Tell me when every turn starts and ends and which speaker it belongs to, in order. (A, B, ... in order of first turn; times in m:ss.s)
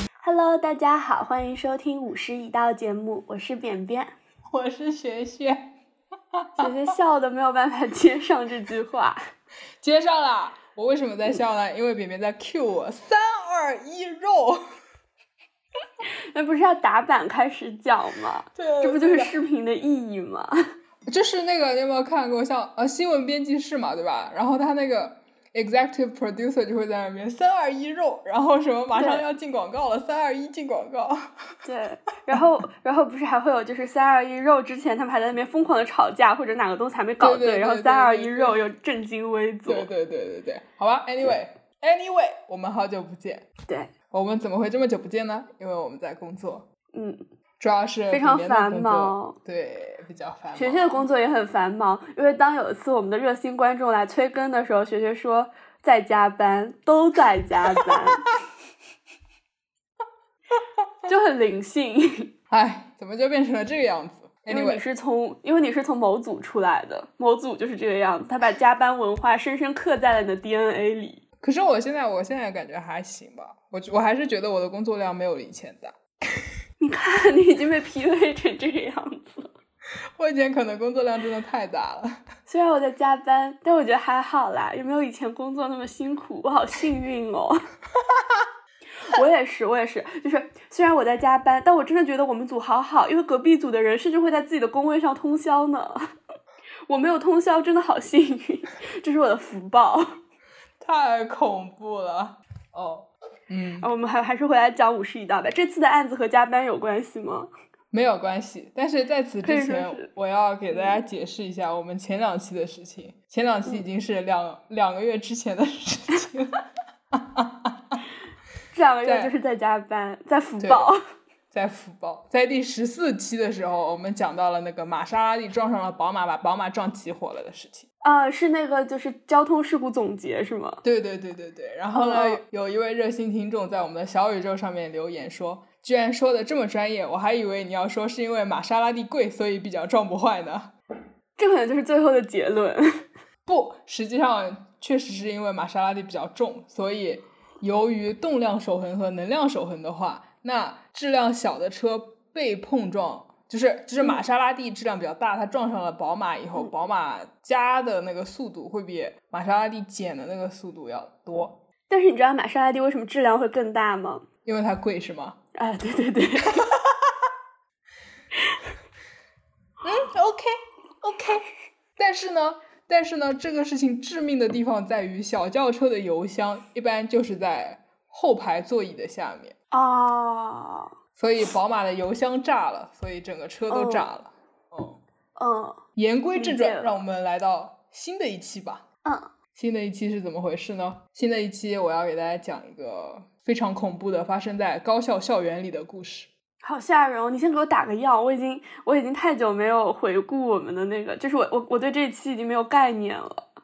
0:00.2-0:04.1 A
0:04.5-0:05.8 B
0:06.4-0:06.7 B
0:06.6-0:09.2 A
0:09.8-0:14.6 B
0:16.3-0:20.6 A
0:18.6-0:19.4 B
0:21.1-0:31.3 B
0:29.0-0:29.2 A
0:31.6-0:39.9 A
0:37.2-0:38.6 B
0:39.7-0:43.5 B
0:43.7-0:43.9 A
0:44.1-0:46.7 B
0:46.9-0:47.2 A
0:47.6-0:51.1 B
0:48.1-0:49.4 A
0:50.5-0:58.3 A
1:01.1-1:02.3 A
1:02.5-1:04.8 B
1:04.5-1:11.2 A
1:11.4-1:16.4 B
1:16.8-1:19.5 A
1:20.2-1:22.2 B
1:22.5-1:27.6 A
1:29.0-1:36.0 A
1:36.9-1:40.2 A
1:40.8-1:43.9 B
1:43.8-1:47.5 A
1:47.9-1:56.6 B
1:49.4-1:50.1 A
1:50.7-1:51.0 A
1:57.1-1:58.0 B
1:58.7-2:01.0 A
1:59.0-1:59.3 B
2:00.6-2:00.9 B
2:01.5-2:07.9 B
2:08.0-2:10.8 A
2:10.8-2:20.7 B
2:11.9-2:12.4 A
2:21.4-2:23.0 A
2:23.5-2:41.6 B
2:41.9-2:44.2 A
2:44.4-2:45.4 B
2:45.6-2:46.7 A
2:46.6-2:47.1 B
2:49.8-2:51.4 B
2:52.0-2:59.6 B
2:59.7-3:00.9 A
3:01.2-3:05.0 B
3:03.7-3:04.1 A
3:05.4-3:05.8 A
3:06.0-3:08.8 B
3:06.4-3:06.9 A
3:09.6-3:16.3 B
3:16.6-3:23.4 A